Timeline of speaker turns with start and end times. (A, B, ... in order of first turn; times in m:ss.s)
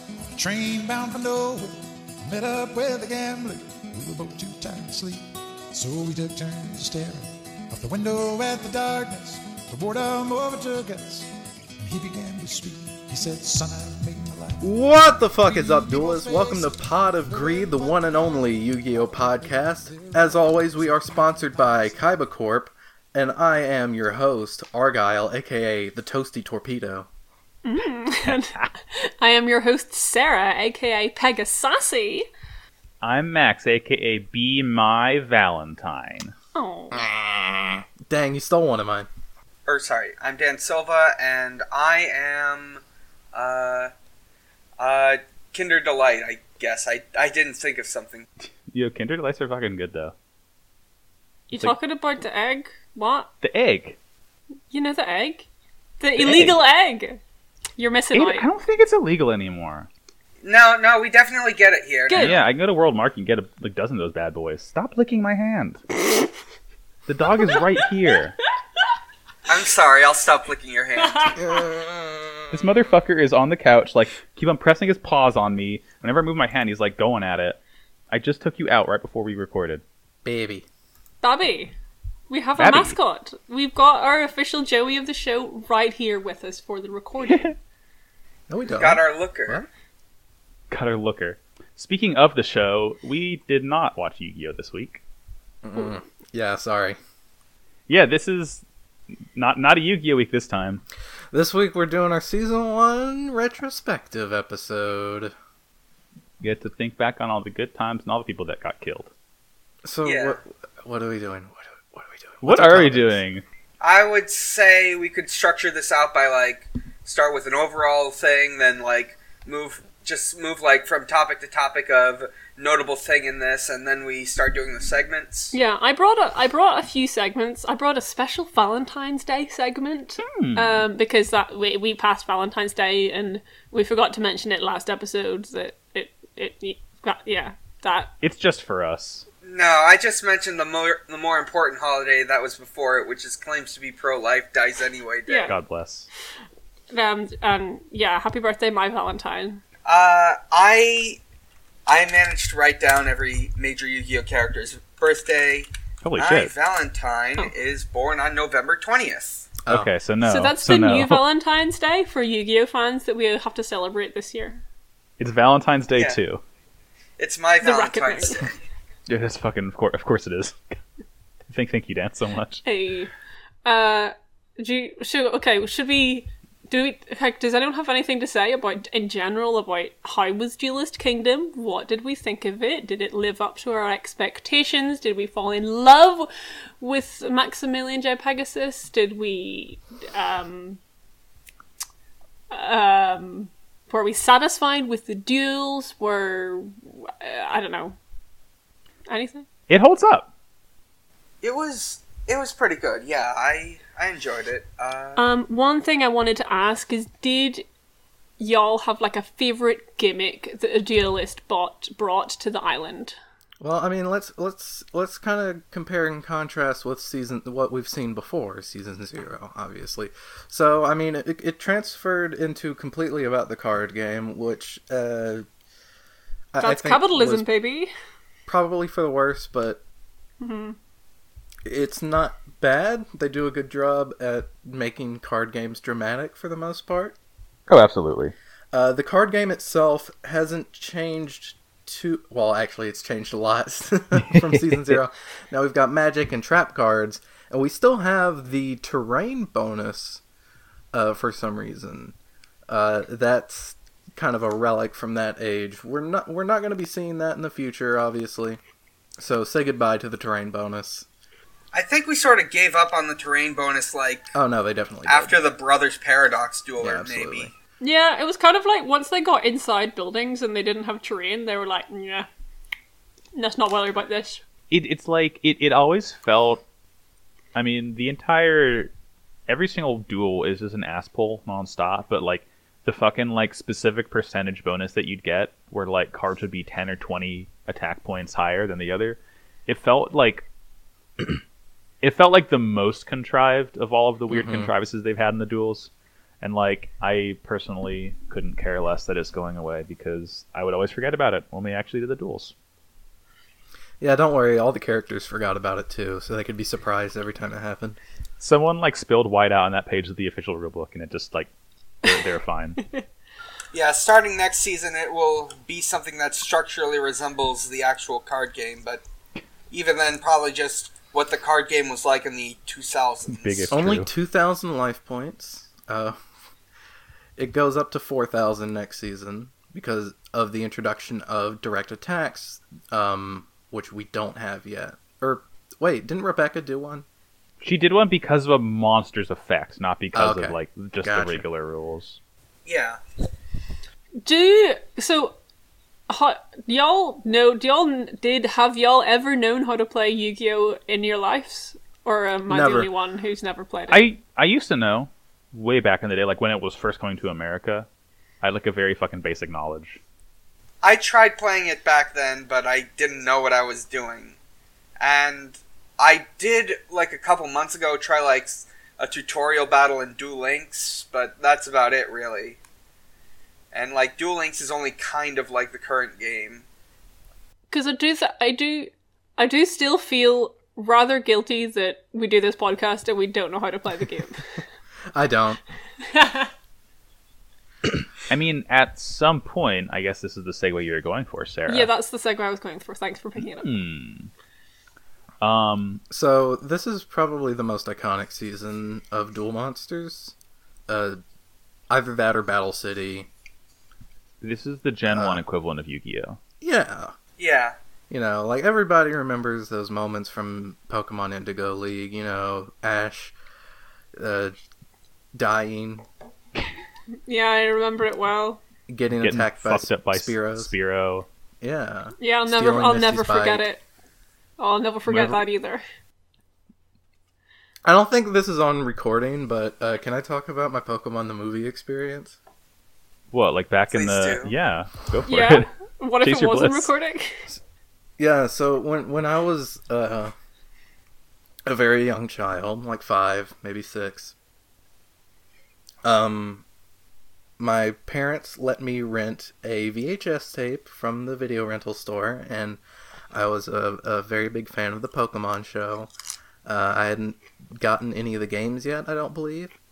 0:00.4-0:05.2 A
0:05.7-0:11.3 A
0:11.8-0:14.7 A
0:14.6-0:27.1 B
0:15.4-0:18.4 A
0:19.9-0:20.4 A
0:27.6-0:32.3 C
0:33.0-0:36.3 D
0:36.5-0:37.0 C
0:36.9-0:39.1 B
0:39.6-0:42.8 E
0:43.3-0:43.9 E
0:44.8-0:48.3 E
0:48.7-0:50.1 D
0:51.5-0:53.3 C
0:53.4-0:54.0 D
0:54.7-0:55.5 C
0:56.0-0:57.2 C
0:56.2-0:56.6 D
0:57.8-0:58.5 C
0:58.1-0:59.9 D
1:00.4-1:02.4 E
1:02.1-1:02.4 C
1:02.1-1:05.8 D
1:07.1-1:08.4 D
1:09.4-1:11.4 E
1:11.0-1:11.4 C
1:11.4-1:12.5 B
1:12.5-1:17.6 D
1:18.1-1:19.8 D
1:20.2-1:20.6 B
1:21.2-1:21.7 C
1:22.3-1:27.5 C
1:22.6-1:23.0 D
1:27.3-1:27.5 D
1:28.5-1:29.7 B
1:28.7-1:29.6 E
1:30.7-1:35.0 D
1:35.6-1:37.0 B
1:37.9-1:38.6 D
1:39.3-1:40.8 D
1:41.3-1:45.3 B
1:46.4-1:49.1 D
1:49.8-1:53.2 B
1:50.0-1:50.4 E
1:52.4-1:53.4 D
1:53.8-2:05.6 E
2:05.5-2:18.1 C
2:10.2-2:10.8 D
2:18.2-2:19.2 D
2:19.4-2:25.5 E
2:25.3-2:25.6 C
2:25.5-2:26.1 D
2:26.9-2:29.6 C
2:29.8-2:31.2 E
2:31.9-2:39.5 E
2:36.0-2:36.5 D
2:39.6-2:39.9 B
2:39.7-2:41.2 D
2:40.2-2:44.6 C
2:45.2-2:46.4 D
2:47.2-2:48.6 E
2:47.6-2:48.5 C
2:49.1-2:50.6 D
2:51.5-2:52.6 D
2:52.6-2:53.1 C
2:53.6-3:06.3 C
3:06.8-3:10.8 C
3:12.5-3:18.0 C
3:19.1-3:19.5 C
3:19.7-3:20.3 D
3:21.4-3:25.2 E
3:25.2-3:27.6 C
3:28.4-3:33.2 C
3:33.6-3:45.4 B
3:46.5-3:47.4 B
3:46.6-3:47.9 C
3:48.5-3:49.8 B
3:50.4-3:50.8 C
3:51.6-3:57.2 B
3:57.7-3:58.3 D
3:58.7-4:10.2 B
4:04.3-4:05.0 D
4:10.9-4:12.1 B
4:12.7-4:18.6 B
4:19.2-4:21.0 B
4:21.7-4:24.3 E
4:24.3-4:25.4 B
4:25.1-4:27.5 E
4:26.8-4:27.5 B
4:27.8-4:32.3 C
4:33.3-4:34.4 C
4:34.7-4:36.6 D
4:37.5-4:38.9 D
4:39.5-4:50.4 D
4:52.0-4:55.9 D
4:54.3-4:54.7 B
4:56.4-5:02.5 D
5:04.0-5:08.0 B
5:08.4-5:11.5 D
5:12.0-5:12.8 D
5:13.7-5:19.0 E
5:19.7-5:23.7 E
5:23.3-5:24.1 D
5:23.7-5:26.2 B
5:27.4-5:37.0 B
5:37.6-5:42.2 D
5:40.1-5:41.4 B
5:42.6-5:43.0 E
5:44.2-5:45.4 C
5:46.1-5:54.0 C
5:52.5-5:52.9 B
5:53.9-5:57.9 D
5:58.4-6:00.0 D
6:00.8-6:04.4 E
6:05.0-6:12.6 E
6:13.7-6:16.6 E
6:17.7-6:24.5 C
6:25.1-6:25.6 B
6:26.0-6:26.5 C
6:28.2-6:31.9 D
6:31.7-6:33.6 C
6:33.5-6:34.3 D
6:35.4-6:36.0 D
6:36.1-6:40.3 B
6:40.9-6:41.2 B
6:41.9-6:43.3 B
6:44.4-6:46.4 D
6:45.1-6:45.4 B
6:46.6-6:47.1 B
6:47.4-6:47.8 E
6:48.1-6:53.3 B
6:54.2-6:54.5 B
6:55.3-6:56.0 B
6:57.3-6:58.6 C
6:58.9-7:00.7 B
6:59.2-7:01.3 D
7:01.6-7:03.7 B
7:02.2-7:03.8 C
7:04.6-7:05.8 C
7:05.1-7:05.4 D
7:07.8-7:12.4 B
7:13.3-7:15.7 D
7:13.9-7:14.5 E
7:15.2-7:17.5 C
7:16.2-7:16.9 D
7:18.2-7:20.3 B
7:21.6-7:24.3 B
7:26.0-7:26.6 B
7:27.6-7:32.8 B
7:33.3-7:36.1 B
7:36.6-7:39.7 B